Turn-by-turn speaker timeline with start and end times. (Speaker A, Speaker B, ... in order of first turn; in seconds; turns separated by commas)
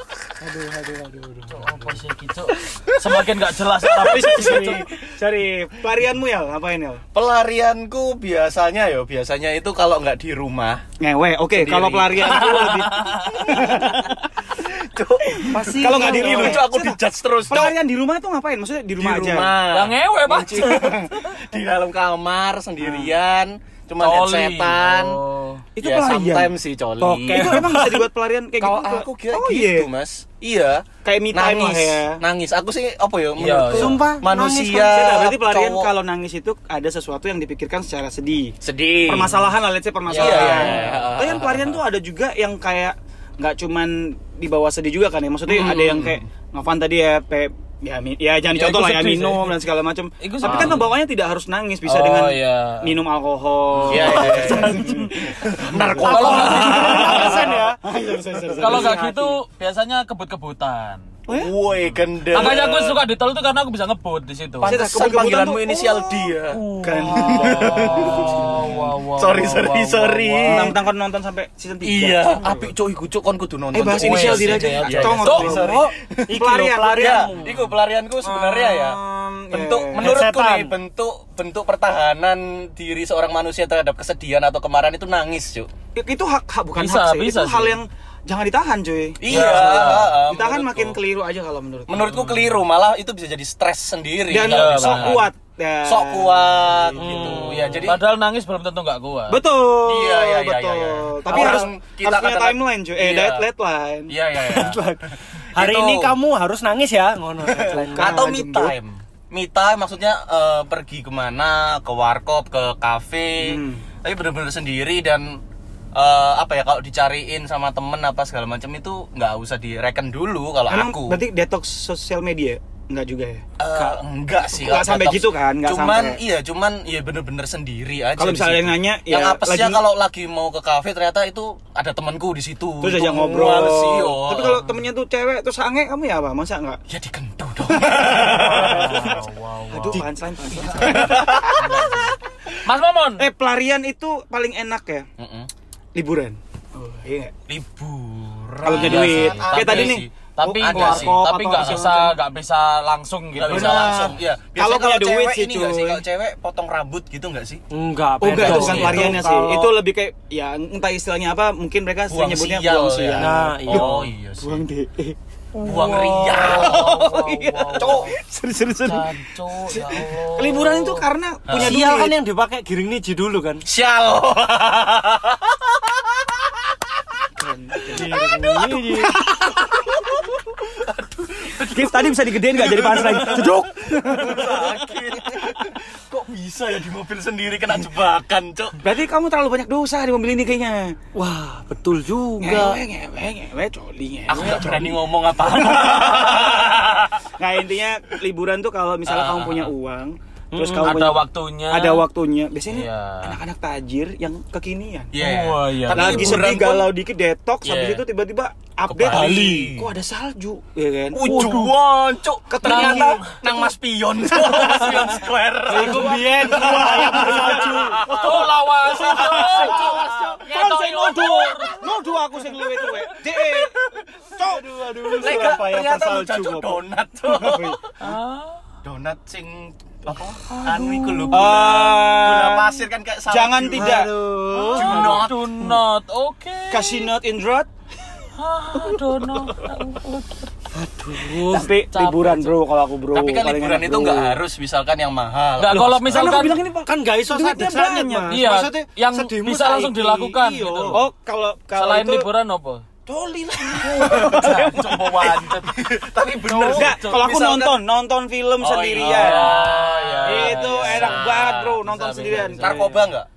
Speaker A: 0.4-2.0, Speaker B: 1.5-4.8, Speaker C: 4.0-7.0, Speaker D: 4.4-4.8, Speaker D: 7.1-10.8, Speaker C: 11.0-14.2, Speaker D: 11.5-17.7, Speaker B: 12.2-13.7, Speaker C: 15.4-19.6, Speaker A: 15.5-16.6, Speaker D: 19.0-25.2, Speaker B: 19.7-21.0, Speaker C: 22.8-23.1, Speaker B: 24.0-25.6, Speaker C: 25.7-26.5, Speaker D: 25.8-27.7, Speaker A: 27.0-28.0, Speaker C: 27.3-29.9, Speaker D: 28.6-35.9, Speaker C: 31.0-32.2, Speaker B: 33.4-34.0, Speaker A: 33.7-35.1, Speaker C: 34.8-59.1, Speaker D: 38.6-39.4, Speaker D: 40.1-41.8, Speaker B: 40.1-40.9, Speaker D: 45.5-46.2, Speaker B: 48.5-49.5, Speaker B: 50.2-50.9, Speaker D: 50.5-50.8, Speaker B: 51.8-52.9, Speaker B: 53.8-54.3, Speaker D: 53.9-54.9, Speaker D: 55.4-57.4, Speaker B: 56.0-57.2, Speaker A: 56.0-57.8, Speaker B: 58.6-61.0, Speaker A: 58.6-59.4, Speaker C: 61.3-61.5, Speaker D: 61.3-63.0, Speaker B: 61.8-64.8, Speaker C: 64.6-68.7, Speaker D: 64.6-68.4, Speaker B: 66.7-70.8, Speaker D: 69.2-70.8, Speaker C: 70.5-72.6, Speaker D: 71.8-75.8, Speaker C: 73.7-77.1, Speaker B: 73.9-75.5, Speaker A: 75.3-77.7, Speaker D: 77.0-79.0, Speaker C: 78.2-80.2, Speaker D: 79.5-85.7, Speaker A: 79.9-80.8, Speaker C: 85.9-92.3, Speaker B: 86.7-87.8, Speaker D: 89.2-91.0, Speaker B: 89.3-90.1, Speaker D: 91.9-95.2, Speaker C: 94.3-97.4, Speaker B: 94.4-95.2, Speaker D: 95.8-98.0, Speaker A: 97.0-97.9, Speaker B: 97.8-99.4, Speaker C: 99.3-104.1, Speaker D: 99.8-103.5, Speaker D: 104.1-104.9, Speaker A: 104.4-108.2, Speaker D: 105.5-106.1, Speaker D: 107.5-115.4, Speaker C: 107.5-108.7, Speaker C: 113.4-113.8, Speaker D: 115.9-121.2, Speaker C: 120.7-123.4, Speaker D: 123.6-134.6, Speaker C: 124.5-126.2, Speaker C: 128.2-129.8, Speaker C: 132.8-136.8, Speaker D: 136.9-139.0, Speaker C: 137.9-139.2, Speaker B: 138.1-140.1, Speaker C: 139.7-141.7, Speaker D: 140.8-141.5, Speaker B: 141.5-143.3, Speaker C: 143.2-145.1, Speaker D: 145.2-145.5, Speaker C: 145.9-147.3, Speaker D: 147.5-151.8, Speaker C: 148.6-152.2, Speaker B: 148.7-154.1, Speaker D: 153.4-157.6, Speaker C: 153.5-156.0, Speaker A: 157.7-159.7, Speaker C: 158.2-165.2, Speaker D: 158.3-159.2, Speaker D: 162.1-164.6, Speaker A: 163.2-163.9, Speaker B: 165.6-168.2, Speaker D: 165.6-167.0, Speaker C: 166.4-169.1, Speaker D: 167.8-168.1, Speaker B: 168.8-171.1, Speaker C: 169.7-172.1, Speaker D: 171.5-171.8, Speaker A: 171.6-173.6, Speaker D: 173.7-176.4, Speaker C: 177.4-179.6, Speaker A: 177.9-179.2, Speaker D: 179.9-183.6, Speaker C: 181.6-184.8, Speaker D: 184.1-188.8, Speaker C: 188.8-190.9, Speaker A: 191.1-192.6, Speaker C: 192.4-195.0, Speaker D: 192.4-192.8, Speaker D: 194.3-197.2, Speaker C: 195.5-196.7, Speaker C: 197.4-205.1, Speaker D: 199.1-199.7, Speaker A: 200.5-201.0, Speaker B: 200.8-202.0, Speaker B: 202.7-203.4, Speaker D: 205.1-206.9, Speaker B: 205.1-206.5, Speaker C: 205.9-211.8, Speaker D: 207.6-208.0, Speaker D: 208.9-209.9, Speaker A: 209.1-209.5, Speaker D: 211.1-220.4, Speaker C: 212.5-213.7, Speaker B: 212.6-213.4, Speaker C: 214.3-215.2, Speaker B: 214.8-215.1, Speaker A: 215.7-218.0, Speaker C: 215.7-223.8, Speaker B: 218.1-221.9, Speaker D: 223.5-223.7, Speaker C: 224.3-227.8, Speaker A: 224.5-225.6, Speaker D: 225.1-227.8, Speaker B: 228.0-228.6, Speaker D: 228.8-234.0, Speaker B: 230.5-231.7, Speaker C: 231.3-234.1, Speaker A: 233.7-235.2, Speaker B: 234.5-237.1, Speaker D: 234.7-235.5, Speaker C: 236.7-237.7, Speaker B: 238.4-240.5, Speaker A: 240.7-241.7, Speaker C: 241.5-244.4, Speaker B: 241.5-242.6, Speaker D: 243.1-246.5, Speaker B: 245.6-246.6, Speaker C: 246.1-248.4, Speaker A: 246.8-251.0, Speaker B: 248.3-251.0, Speaker C: 250.9-252.3, Speaker B: 251.7-252.8, Speaker C: 253.1-255.4, Speaker D: 253.6-254.9, Speaker B: 254.1-255.9, Speaker D: 255.7-257.8, Speaker B: 256.4-257.3, Speaker C: 256.6-259.6, Speaker D: 258.6-261.7, Speaker B: 259.0-262.9, Speaker C: 260.2-262.9, Speaker D: 262.6-263.3